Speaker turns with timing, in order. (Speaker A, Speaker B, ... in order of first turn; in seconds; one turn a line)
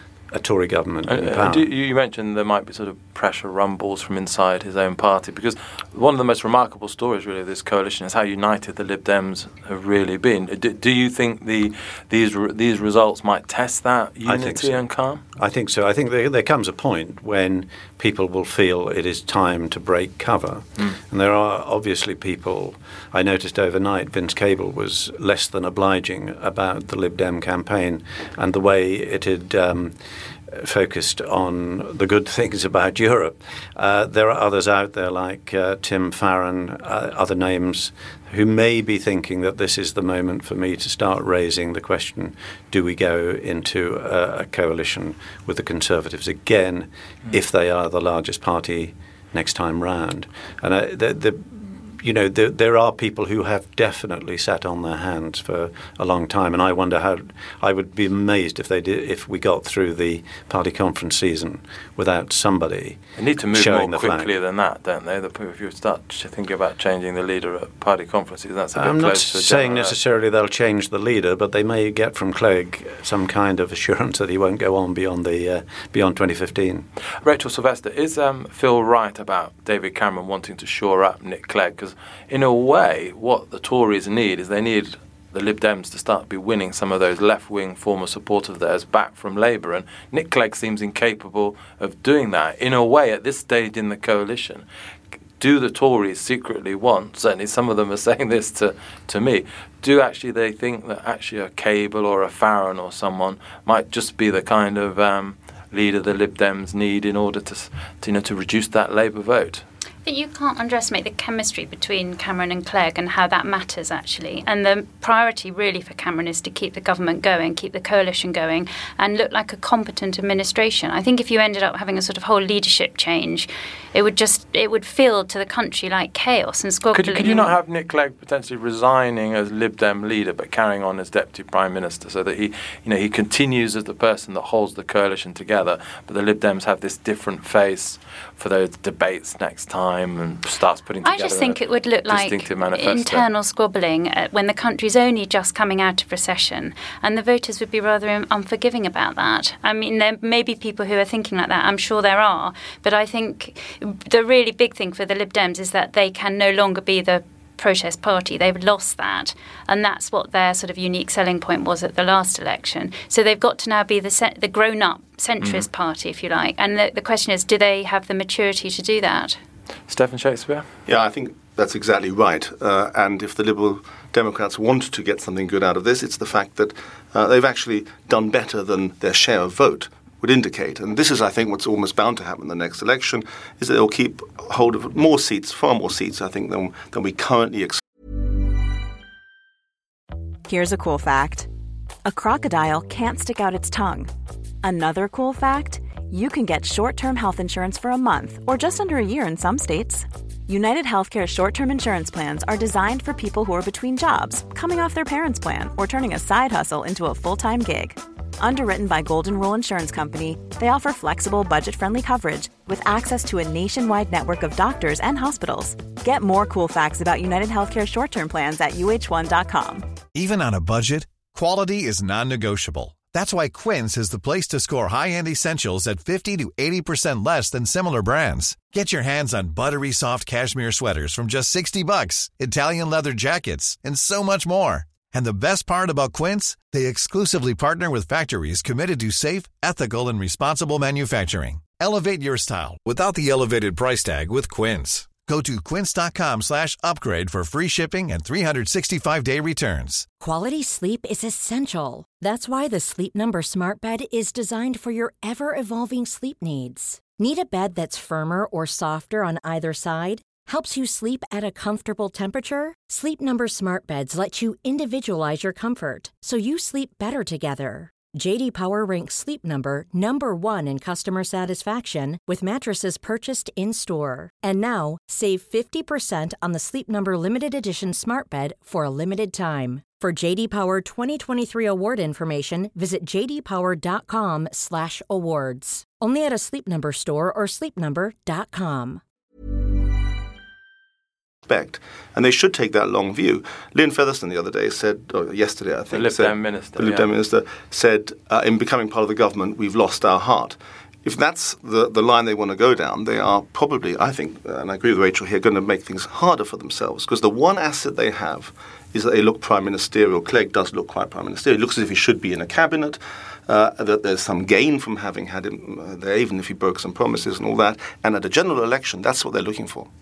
Speaker A: 0.3-1.7
Speaker B: 1.1-15.2
Speaker A: 14.2-14.8
Speaker A: 15.3-63.0
Speaker B: 63.2-70.0
Speaker A: 63.5-64.3
Speaker A: 68.7-76.9
Speaker B: 77.2-94.6
Speaker B: 95.4-109.6
Speaker C: 110.0-127.5
Speaker B: 126.9-143.3
Speaker C: 141.0-169.4
Speaker B: 169.9-170.7
Speaker D: 170.9-187.8
Speaker E: 190.5-191.5
Speaker E: 192.0-194.1
Speaker E: 194.6-219.9
Speaker F: 220.1-250.1
Speaker G: 250.2-289.0
Speaker D: 291.5-319.9
Speaker B: 295.9-297.1